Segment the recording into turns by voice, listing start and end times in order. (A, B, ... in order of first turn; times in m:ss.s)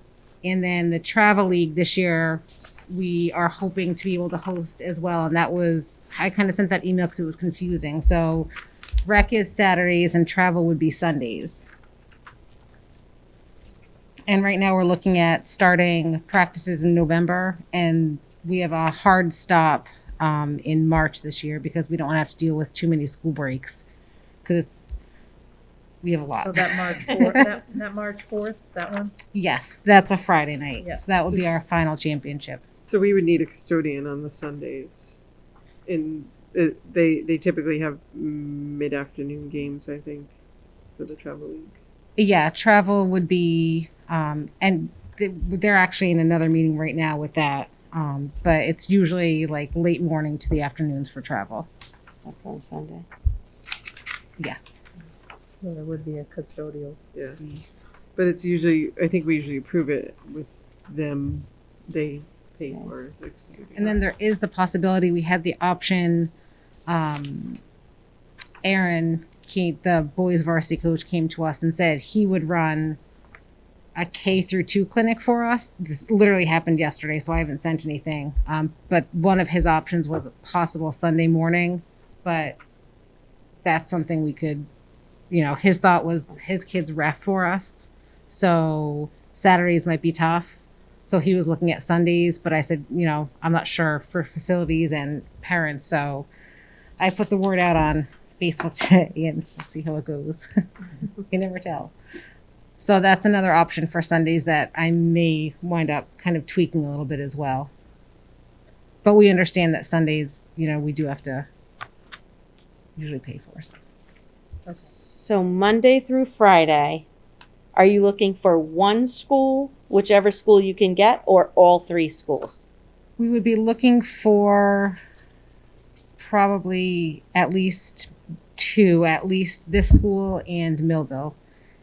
0:00.4-0:08.5 A
0:09.0-0:11.7 A
0:14.3-0:23.8 A
0:24.4-0:24.9 A
0:26.0-0:27.5 A
0:26.4-0:29.1 B
0:29.3-0:32.6 A
0:30.8-0:31.1 B
0:32.9-0:35.2 C
0:35.8-0:40.3 C
0:41.0-0:41.8 C
0:42.2-0:51.7 A
0:52.2-0:53.0 D
0:54.4-0:54.8 A
0:55.6-0:57.0 B
0:57.1-0:57.4 C
0:58.2-1:04.0 C
1:03.7-1:06.3 A
1:06.9-1:07.6 A
1:08.6-1:13.0 A
1:14.0-1:22.6 A
1:23.6-1:24.7 A
1:25.3-1:36.3 A
1:37.0-1:40.5 A
1:41.3-1:41.9 A
1:42.8-1:47.7 A
1:49.0-1:51.5 A
1:53.0-1:53.8 A
1:54.8-1:57.0 D
1:57.7-2:02.6 D
2:03.2-2:05.0 A
2:06.2-2:11.4 A